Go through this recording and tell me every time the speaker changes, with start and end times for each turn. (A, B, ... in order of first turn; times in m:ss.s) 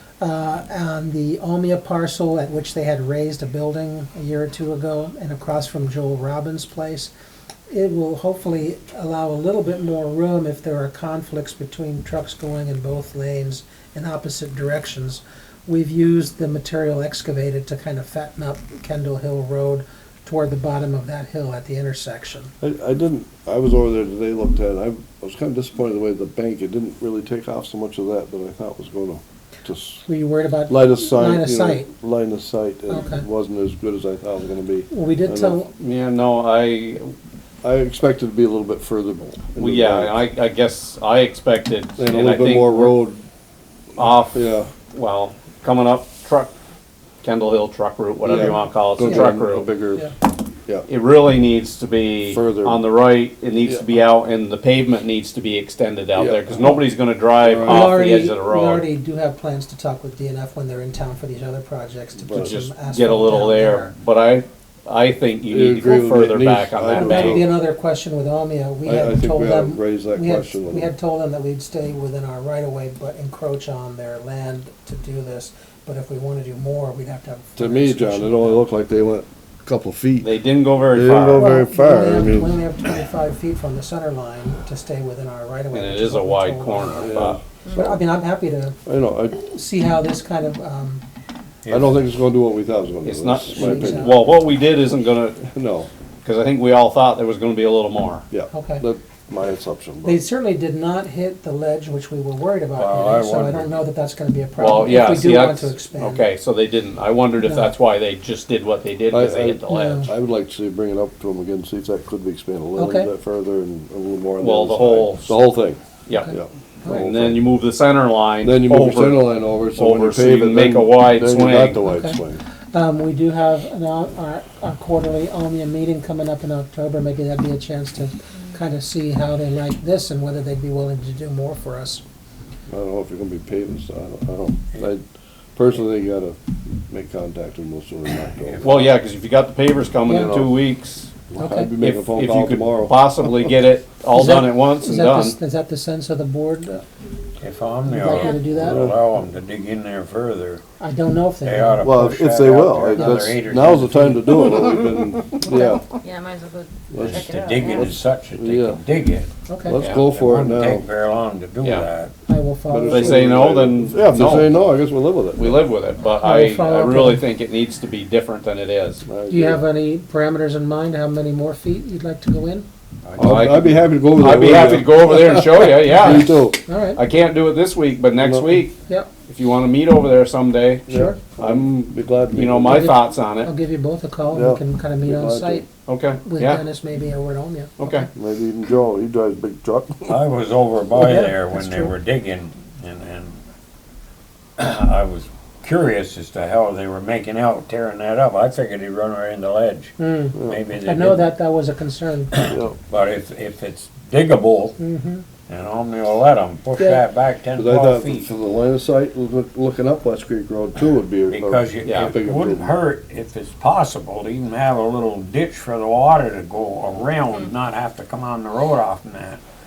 0:00.2-0:07.1 A
0:07.7-0:22.5 A
0:22.6-0:30.0 B
0:30.0-0:31.9 A
0:30.7-0:35.6 B
0:32.9-0:33.2 A
0:34.9-0:35.7 A
0:35.8-0:37.1 C
0:37.6-0:40.2 B
0:39.6-0:43.0 C
0:42.0-0:43.2 B
0:44.0-0:46.5 C
0:44.3-0:44.7 B
0:47.2-0:49.7 C
0:48.2-0:50.1 B
0:50.9-0:58.8 C
0:52.2-0:52.8 B
0:56.1-0:56.8 B
0:57.4-0:57.9 B
0:57.7-1:03.9 A
1:02.2-1:02.6 B
1:02.4-1:07.5 C
1:05.5-1:07.5 B
1:07.0-1:18.6 A
1:08.8-1:10.9 B
1:17.6-1:20.3 B
1:20.2-1:21.6 C
1:20.9-1:22.6 B
1:21.3-1:28.8 A
1:25.7-1:27.4 C
1:27.0-1:27.4 B
1:27.6-1:27.9 D
1:28.9-1:29.4 B
1:29.4-1:31.0 A
1:31.6-1:32.0 E
1:31.7-1:34.2 B
1:33.0-1:35.5 C
1:33.5-1:34.2 A
1:35.5-1:35.9 B
1:36.2-1:38.2 C
1:38.3-1:40.2 B
1:38.5-1:38.8 A
1:40.0-1:46.2 A
1:42.8-1:43.8 E
1:44.6-1:50.1 C
1:47.4-1:47.7 A
1:49.1-1:57.5 B
1:49.7-1:50.1 A
1:52.8-1:53.1 A
1:54.4-1:55.4 C
1:56.1-2:01.9 C
1:58.4-2:02.4 B
2:01.9-2:02.2 A
2:02.7-2:12.0 A
2:12.7-2:15.0 B
2:15.6-2:18.8 B
2:18.4-2:18.9 E
2:18.6-2:21.1 C
2:20.1-2:20.4 A
2:20.1-2:20.5 B
2:21.3-2:23.5 B
2:21.4-2:21.7 A
2:21.8-2:25.4 C
2:24.1-2:26.8 A
2:27.4-2:30.6 E
2:27.8-2:28.8 A
2:28.1-2:28.4 D
2:28.6-2:29.0 B
2:30.8-2:31.8 A
2:31.4-2:34.5 E
2:31.8-2:35.9 B
2:32.9-2:33.2 A
2:35.6-2:38.0 D
2:36.9-2:38.8 B
2:37.0-2:39.3 E
2:39.5-2:39.8 A
2:39.6-2:40.8 B
2:39.7-2:40.0 C
2:39.9-2:42.1 E
2:41.6-2:41.9 C
2:42.3-2:43.5 A
2:42.7-2:45.7 B
2:42.8-2:44.6 C
2:45.4-2:49.0 C
2:46.2-2:47.2 A
2:49.1-2:49.6 B
2:49.3-2:52.7 A
2:53.0-2:53.5 E
2:53.2-2:56.6 B
2:53.2-3:01.8 C
2:56.7-2:57.0 A
2:58.1-2:58.6 B
3:00.9-3:02.9 B
3:00.9-3:01.2 A
3:02.3-3:03.5 C
3:02.7-3:05.7 A
3:04.3-3:05.7 B
3:05.8-3:06.6 C
3:06.2-3:08.1 A
3:07.8-3:08.1 C
3:08.2-3:10.2 B
3:10.1-3:13.4 E
3:11.0-3:11.9 A
3:14.6-3:21.3 E
3:20.0-3:22.4 A
3:22.4-3:24.8 E
3:22.5-3:22.8 B
3:24.8-3:25.2 A
3:25.5-3:28.3 E
3:27.6-3:32.8 B
3:31.3-3:39.4 E
3:31.8-3:32.1 C